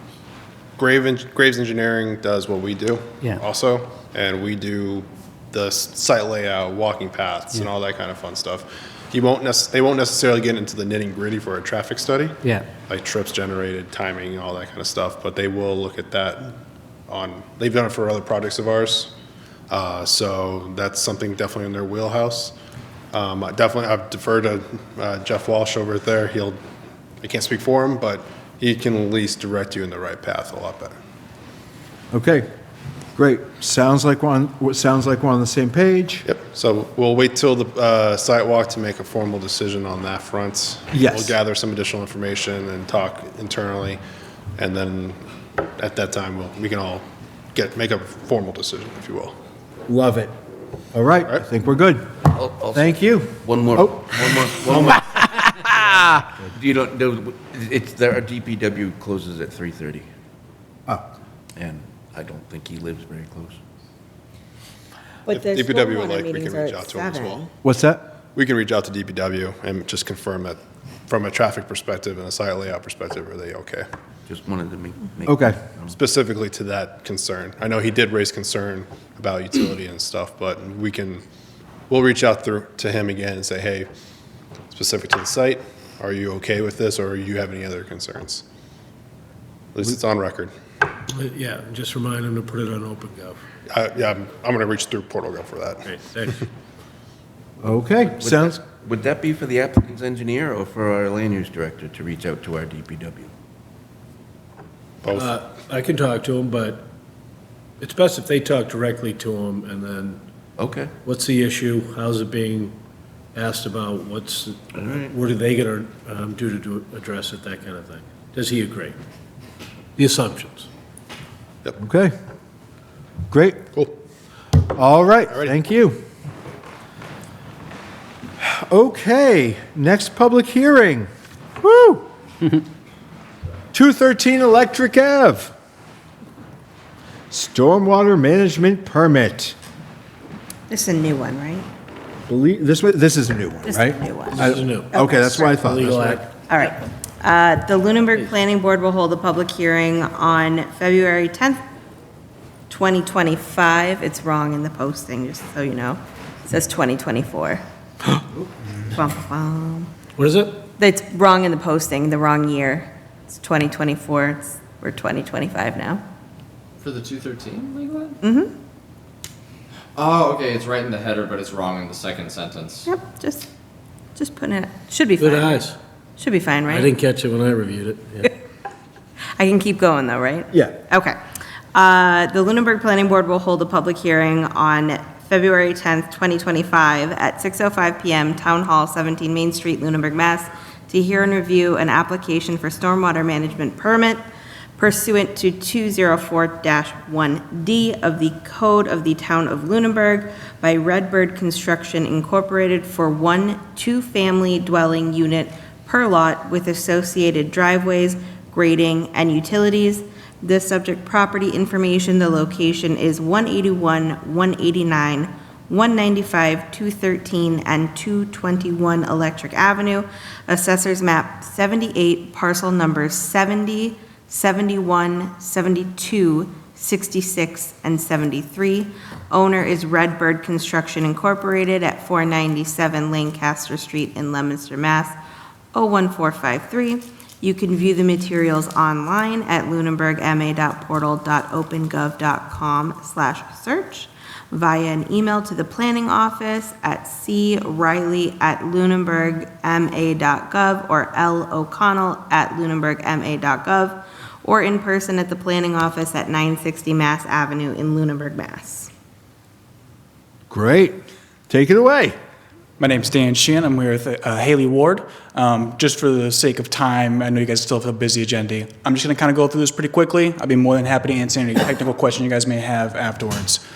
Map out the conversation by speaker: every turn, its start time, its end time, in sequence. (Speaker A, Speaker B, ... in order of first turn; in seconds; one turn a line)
Speaker A: 0.8-16.5
Speaker A: 17.1-19.1
Speaker A: 19.7-22.5
Speaker A: 23.1-26.6
Speaker A: 27.2-30.9
Speaker B: 32.1-32.5
Speaker B: 33.2-36.3
Speaker A: 36.2-44.0
Speaker B: 40.9-41.4
Speaker A: 44.6-45.2
Speaker A: 45.8-49.4
Speaker B: 49.9-50.3
Speaker B: 50.9-52.2
Speaker C: 52.3-60.1
Speaker B: 52.7-54.0
Speaker C: 61.6-63.6
Speaker D: 65.3-67.5
Speaker A: 65.3-67.4
Speaker B: 67.6-68.0
Speaker A: 68.3-73.9
Speaker C: 74.3-75.9
Speaker B: 75.3-75.6
Speaker A: 75.9-81.2
Speaker A: 81.9-83.9
Speaker A: 84.7-88.4
Speaker A: 89.7-90.5
Speaker E: 91.1-93.4
Speaker A: 93.7-95.9
Speaker E: 95.8-96.5
Speaker B: 97.6-98.6
Speaker C: 98.1-103.3
Speaker A: 105.0-105.3
Speaker E: 105.1-106.9
Speaker E: 107.8-110.2
Speaker C: 110.6-110.9
Speaker E: 111.0-112.8
Speaker E: 113.3-119.0
Speaker C: 114.7-115.1
Speaker E: 120.0-120.7
Speaker B: 121.8-122.1
Speaker B: 123.3-123.7
Speaker B: 124.7-126.0
Speaker B: 128.4-131.1
Speaker B: 131.6-132.1
Speaker B: 133.7-135.5
Speaker B: 137.3-139.6
Speaker D: 140.7-141.7
Speaker B: 142.3-146.2
Speaker D: 143.7-145.5
Speaker E: 144.3-146.3
Speaker D: 146.5-151.6
Speaker D: 152.7-157.6
Speaker D: 158.9-159.9
Speaker E: 160.2-160.6
Speaker D: 160.8-166.0
Speaker F: 166.8-168.2
Speaker D: 168.2-168.6
Speaker F: 169.9-172.9
Speaker D: 172.9-173.5
Speaker D: 174.2-177.0
Speaker E: 175.2-175.8
Speaker E: 176.7-178.3
Speaker D: 179.4-181.2
Speaker D: 181.7-194.2
Speaker D: 194.8-235.2
Speaker D: 235.7-258.9
Speaker B: 260.5-260.9
Speaker B: 261.5-262.1
Speaker G: 262.8-273.6